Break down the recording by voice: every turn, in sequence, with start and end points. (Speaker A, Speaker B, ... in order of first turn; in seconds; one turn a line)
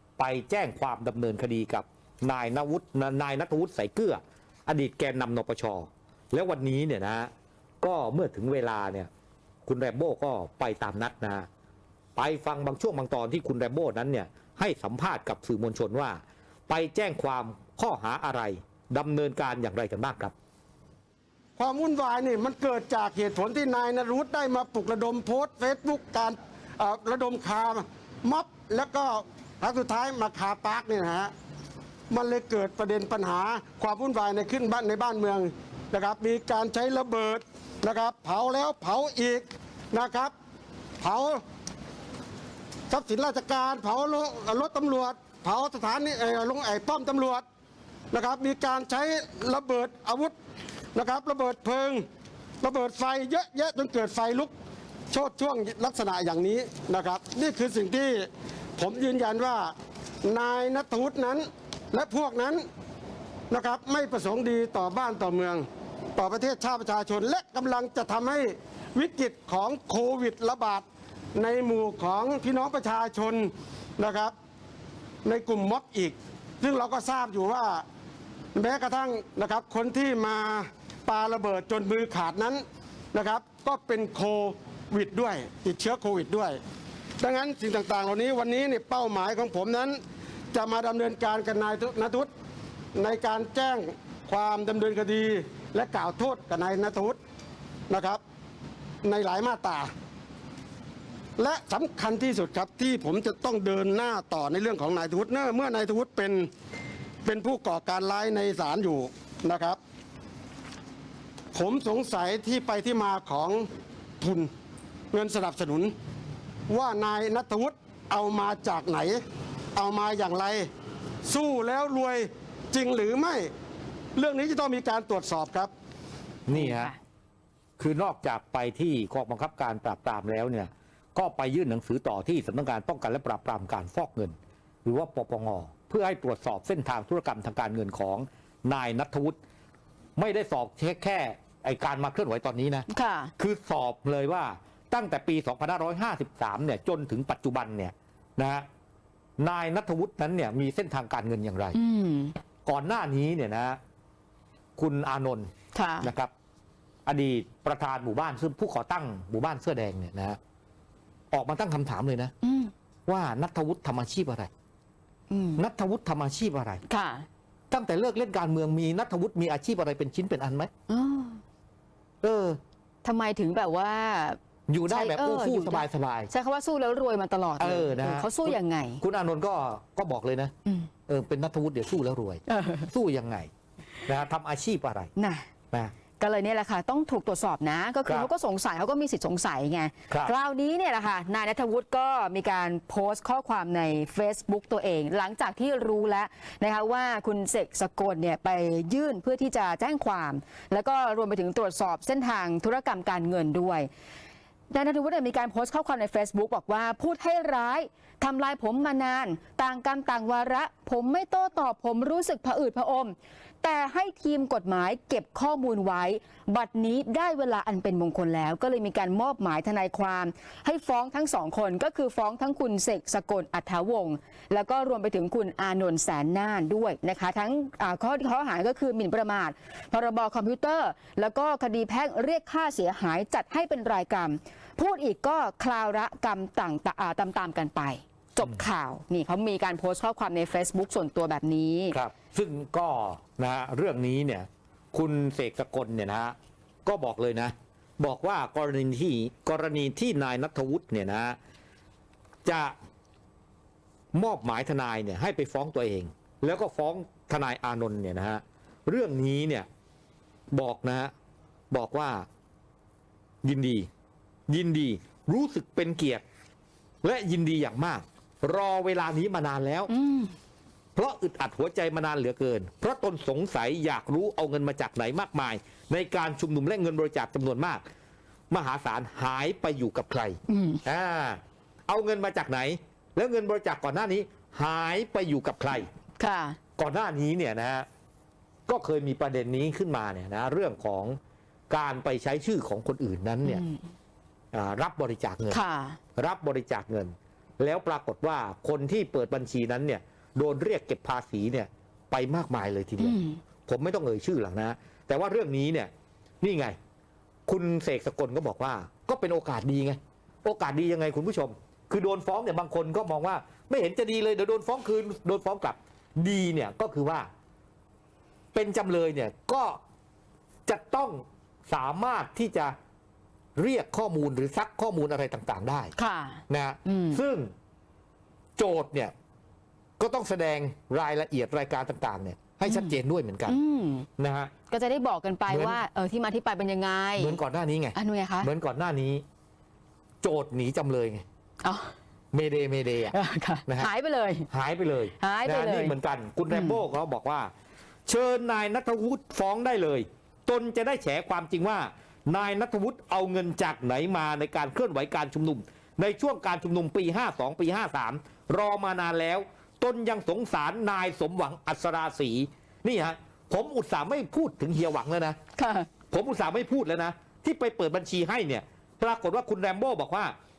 Speaker A: 0.2-7.3
Speaker A: 7.8-9.1
Speaker A: 9.7-11.5
Speaker A: 12.2-20.3
Speaker B: 21.6-31.3
Speaker B: 32.1-40.3
Speaker B: 41.0-41.4
Speaker B: 42.9-47.4
Speaker B: 48.1-50.3
Speaker B: 50.9-52.0
Speaker B: 52.6-54.5
Speaker B: 55.1-59.7
Speaker B: 60.2-62.6
Speaker B: 63.5-65.6
Speaker B: 66.2-74.3
Speaker B: 75.2-77.8
Speaker B: 78.5-86.6
Speaker B: 87.2-90.0
Speaker B: 90.5-92.3
Speaker B: 92.9-97.2
Speaker B: 97.9-98.2
Speaker B: 99.0-99.9
Speaker B: 101.4-106.5
Speaker B: 107.2-109.8
Speaker B: 111.5-113.7
Speaker B: 114.2-114.5
Speaker B: 115.1-115.9
Speaker B: 116.7-119.2
Speaker B: 119.7-120.7
Speaker B: 121.2-123.5
Speaker B: 124.1-125.7
Speaker A: 126.5-126.9
Speaker C: 126.5-127.0
Speaker A: 127.8-139.4
Speaker A: 140.2-142.8
Speaker C: 142.9-143.3
Speaker A: 143.4-148.6
Speaker A: 149.4-151.8
Speaker C: 151.7-152.3
Speaker A: 152.7-153.8
Speaker A: 154.8-155.5
Speaker C: 155.7-156.1
Speaker A: 156.0-156.3
Speaker A: 157.1-160.4
Speaker A: 161.3-162.3
Speaker C: 162.4-162.7
Speaker A: 163.1-164.5
Speaker C: 165.3-165.6
Speaker A: 165.6-166.8
Speaker C: 166.9-167.3
Speaker A: 167.7-170.7
Speaker C: 170.9-171.4
Speaker A: 172.2-172.6
Speaker C: 173.0-179.0
Speaker A: 174.7-176.3
Speaker A: 177.6-180.5
Speaker A: 181.1-183.5
Speaker C: 182.5-182.9
Speaker A: 184.0-185.1
Speaker C: 185.2-185.5
Speaker C: 186.2-203.9
Speaker C: 204.7-241.9
Speaker A: 241.9-246.3
Speaker A: 246.8-251.4
Speaker A: 252.4-252.7
Speaker A: 254.1-259.7
Speaker A: 260.5-261.1
Speaker A: 261.7-262.2
Speaker A: 263.4-263.9
Speaker A: 264.5-266.2
Speaker A: 267.0-269.9
Speaker C: 269.9-270.3
Speaker A: 270.9-277.8
Speaker A: 278.5-285.9
Speaker C: 280.5-280.8
Speaker C: 286.2-286.6
Speaker A: 286.8-287.9
Speaker A: 288.7-291.2
Speaker A: 291.7-293.6
Speaker C: 293.4-293.8
Speaker A: 294.5-295.6
Speaker C: 295.5-296.0
Speaker A: 296.1-305.9
Speaker C: 303.0-303.4
Speaker A: 306.4-306.8
Speaker A: 307.5-317.3
Speaker A: 318.5-319.8
Speaker A: 320.7-322.7
Speaker A: 323.6-325.9
Speaker C: 326.0-327.2
Speaker A: 326.5-327.5
Speaker A: 328.6-329.1
Speaker A: 330.0-333.6
Speaker C: 332.7-332.9
Speaker C: 333.5-334.1
Speaker A: 334.2-334.5
Speaker C: 334.7-337.4
Speaker A: 335.5-335.8
Speaker A: 337.2-339.2
Speaker C: 337.9-338.5
Speaker A: 340.2-341.2
Speaker C: 341.6-341.9
Speaker A: 342.3-343.1
Speaker C: 343.1-344.5
Speaker A: 344.5-347.5
Speaker C: 345.2-345.9
Speaker C: 346.5-346.8
Speaker A: 348.1-365.4
Speaker C: 365.6-365.9
Speaker A: 366.1-370.3